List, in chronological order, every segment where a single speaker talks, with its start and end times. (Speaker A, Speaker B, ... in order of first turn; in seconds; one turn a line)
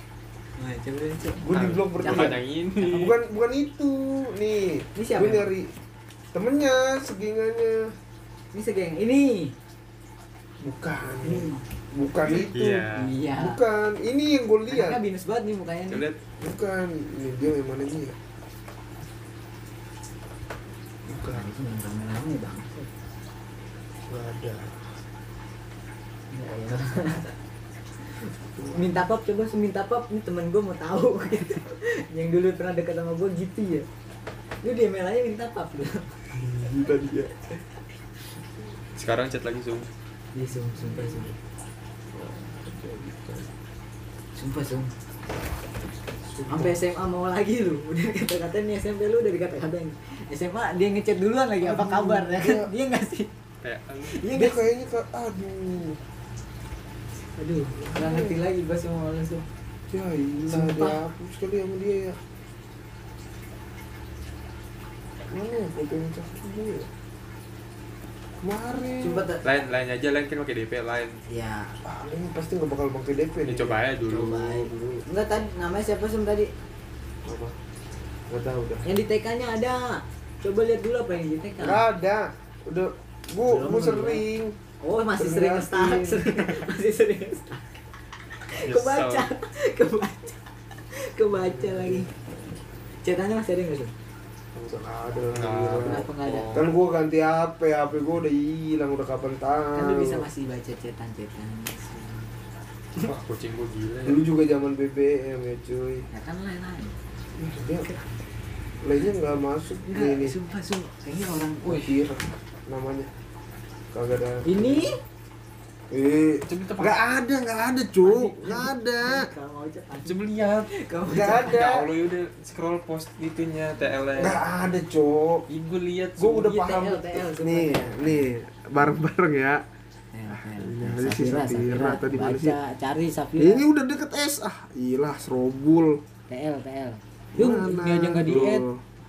Speaker A: 0.6-2.4
Speaker B: 1.4-5.7
Speaker C: 1.5-3.2
Speaker A: 5.0-5.5
Speaker B: 6.3-8.0
Speaker A: 8.5-9.6
Speaker B: 10.6-15.0
Speaker A: 11.2-11.6
Speaker A: 12.3-13.6
Speaker C: 12.5-13.2
Speaker A: 14.7-16.1
Speaker C: 15.9-16.2
Speaker B: 16.4-18.2
Speaker B: 21.1-21.5
Speaker A: 21.3-22.9
Speaker B: 24.1-24.9
Speaker A: 26.3-27.4
Speaker A: 28.0-33.9
Speaker B: 28.6-29.0
Speaker A: 34.6-36.3
Speaker B: 36.3-37.6
Speaker C: 39.0-39.9
Speaker A: 40.3-41.4
Speaker B: 40.8-41.3
Speaker B: 42.1-43.5
Speaker A: 44.4-44.9
Speaker B: 46.2-46.8
Speaker A: 46.5-53.3
Speaker B: 51.6-52.7
Speaker C: 53.6-54.3
Speaker A: 54.0-54.6
Speaker B: 54.3-56.0
Speaker A: 57.3-59.5
Speaker B: 57.7-58.4
Speaker B: 59.9-62.2
Speaker A: 60.5-61.0
Speaker B: 65.3-66.9
Speaker B: 68.4-69.3
Speaker A: 69.0-69.5
Speaker C: 69.4-71.2
Speaker A: 71.3-71.8
Speaker B: 71.8-75.0
Speaker C: 73.4-74.5
Speaker A: 74.1-76.5
Speaker B: 77.2-77.6
Speaker B: 78.3-78.8
Speaker A: 78.8-81.9
Speaker B: 81.6-84.6
Speaker A: 83.5-84.2
Speaker A: 84.8-87.7
Speaker B: 85.2-86.6
Speaker A: 88.5-90.4
Speaker C: 88.6-89.3
Speaker A: 90.9-92.1
Speaker B: 91.3-92.2
Speaker A: 93.0-93.9
Speaker B: 94.5-100.3
Speaker C: 95.3-96.6
Speaker A: 95.8-96.6
Speaker A: 99.7-102.4
Speaker C: 103.0-104.2
Speaker B: 104.0-106.1
Speaker A: 106.1-107.0
Speaker B: 107.4-107.9
Speaker B: 108.8-110.4
Speaker A: 109.9-112.0
Speaker B: 111.6-113.1
Speaker B: 113.9-115.0
Speaker A: 114.5-115.0
Speaker B: 115.9-119.3
Speaker C: 116.5-117.0
Speaker A: 118.0-121.6
Speaker C: 120.0-120.7
Speaker B: 121.1-121.9
Speaker C: 121.4-124.4
Speaker B: 124.2-125.5
Speaker C: 125.5-126.3
Speaker B: 126.2-129.7
Speaker A: 126.2-128.3
Speaker A: 130.1-133.7
Speaker B: 130.3-132.6
Speaker B: 133.4-136.0
Speaker A: 136.3-138.7
Speaker B: 137.3-138.9
Speaker C: 138.3-138.5